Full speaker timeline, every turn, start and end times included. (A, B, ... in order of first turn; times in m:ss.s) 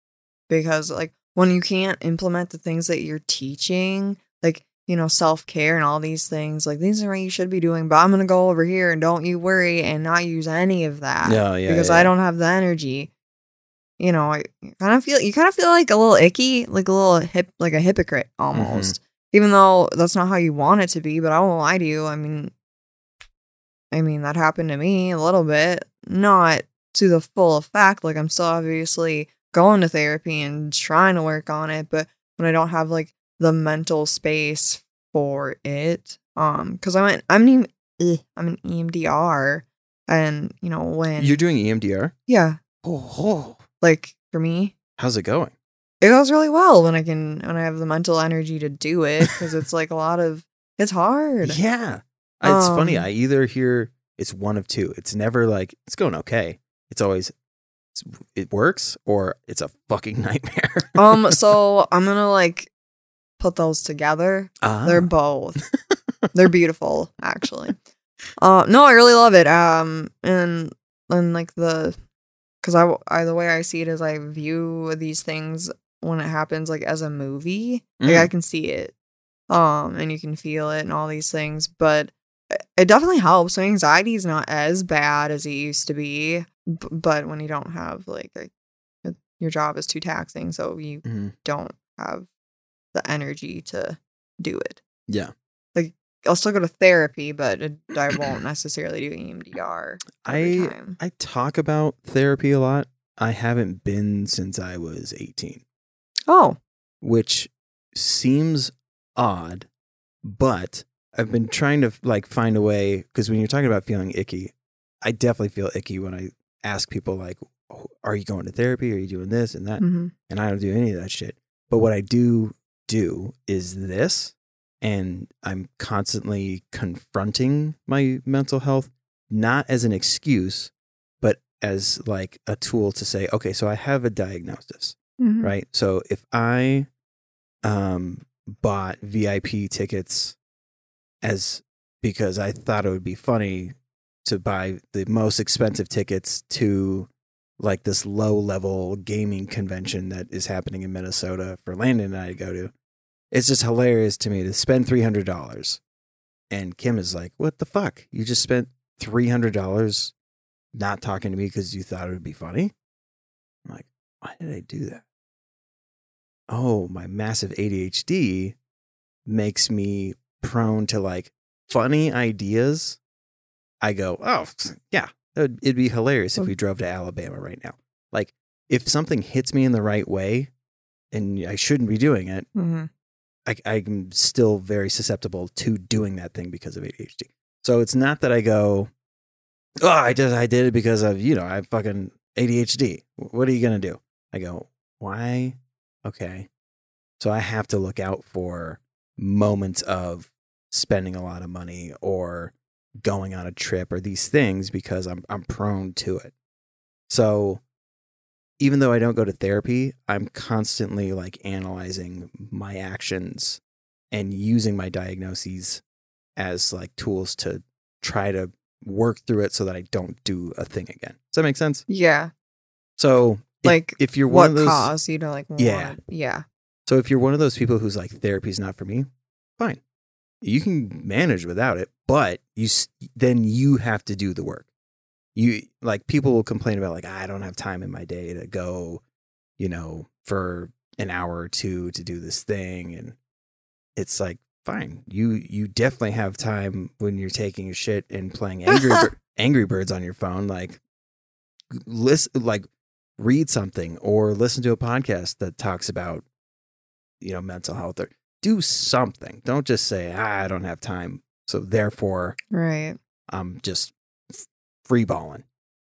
0:00.5-0:13.1 A
0:11.2-0:12.1 B
0:14.0-0:22.5 A
0:18.5-0:19.0 B
0:23.9-0:41.4 A
0:41.2-0:42.1 B
0:42.3-0:42.6 A
0:42.8-0:43.6 B
0:43.8-0:44.7 A
0:45.0-0:45.5 B
0:46.0-0:51.6 A
0:51.4-0:57.3 B
0:52.4-0:53.1 A
0:57.9-1:01.4 B
1:00.9-1:02.7 A
1:03.4-1:05.6 A
1:04.6-1:05.1 B
1:06.3-1:07.8 A
1:08.4-1:12.0 A
1:12.6-1:18.9 A
1:18.0-1:18.3 B
1:19.5-1:28.5 A
1:29.0-1:32.3 A
1:31.0-1:31.3 B
1:32.9-1:34.8 A
1:35.7-1:41.0 A
1:40.2-1:45.6 B
1:46.3-1:46.6 A
1:47.0-1:49.7 B
1:50.2-2:16.9 B
1:59.8-2:00.1 A
2:15.2-2:15.5 A
2:17.6-2:20.4 B
2:21.2-2:32.7 B
2:33.3-2:35.8 B
2:36.5-2:40.1 B
2:40.7-2:42.7 B
2:43.6-2:45.0 B
2:46.5-2:48.6 B
2:49.2-2:53.0 B
2:53.8-3:00.5 B
3:01.1-3:02.5 B
3:02.5-3:02.9 A
3:03.4-3:08.9 B
3:09.8-3:16.5 B
3:17.2-3:26.3 B
3:27.1-3:27.6 B
3:28.6-3:35.8 B
3:36.4-3:41.8 B
3:41.9-3:42.3 A
3:43.0-3:44.9 B
3:43.6-3:46.4 A
3:45.6-3:46.0 B
3:46.8-3:49.1 B
3:50.4-3:54.7 B
3:55.3-3:59.0 B
3:59.6-4:03.2 B
4:04.0-4:10.8 B
4:08.7-4:09.1 A
4:11.7-4:12.6 B
4:13.2-4:16.2 B
4:17.2-4:22.4 B
4:22.5-4:23.0 A
4:23.3-4:25.4 B